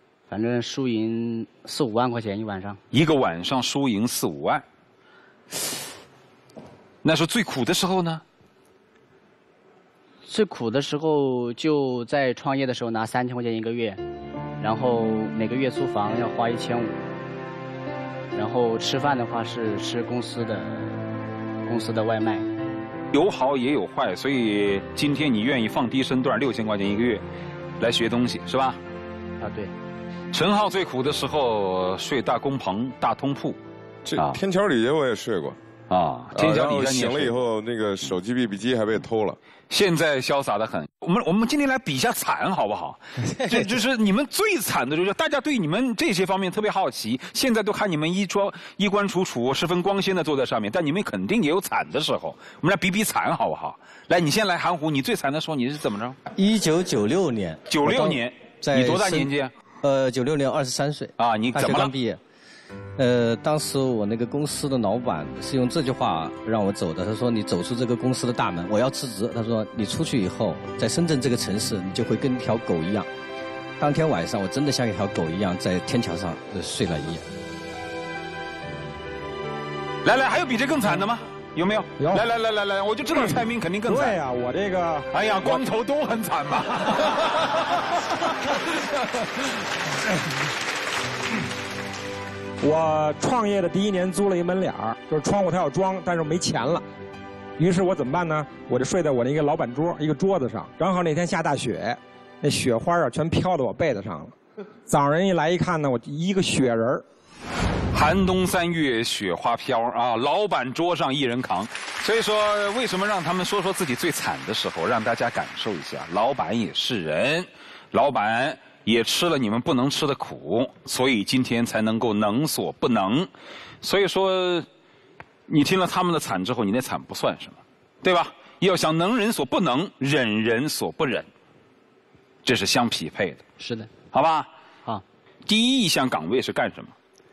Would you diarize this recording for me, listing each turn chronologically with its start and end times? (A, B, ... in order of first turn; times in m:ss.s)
0:00.3-0:02.8 A
0:02.9-0:04.6 B
0:07.0-0:08.2 B
0:10.2-0:14.0 A
0:14.6-0:16.9 A
0:18.3-0:21.0 A
0:21.6-0:22.4 A
0:23.1-0:27.2 B
0:27.8-0:28.8 B
0:29.4-0:29.7 A
0:30.3-0:33.6 B
0:34.0-0:35.6 C
0:35.9-0:37.3 B
0:36.3-0:39.4 C
0:39.7-0:56.2 B
0:56.3-0:59.3 D
0:57.7-0:59.5 B
0:59.8-1:02.2 D
1:01.2-1:01.9 B
1:03.0-1:13.1 D
1:13.8-1:17.2 D
1:20.0-1:24.2 B
1:22.0-1:22.2 E
1:23.1-1:25.6 E
1:25.1-1:27.4 B
1:32.6-1:36.8 E
1:37.6-1:44.3 E
1:44.9-1:47.0 E
1:47.9-2:03.3 B
2:03.8-2:04.7 B
2:05.5-2:11.3 B
2:12.4-2:13.4 B
2:13.6-2:13.9 A
2:14.1-2:14.5 B
2:15.5-2:16.9 B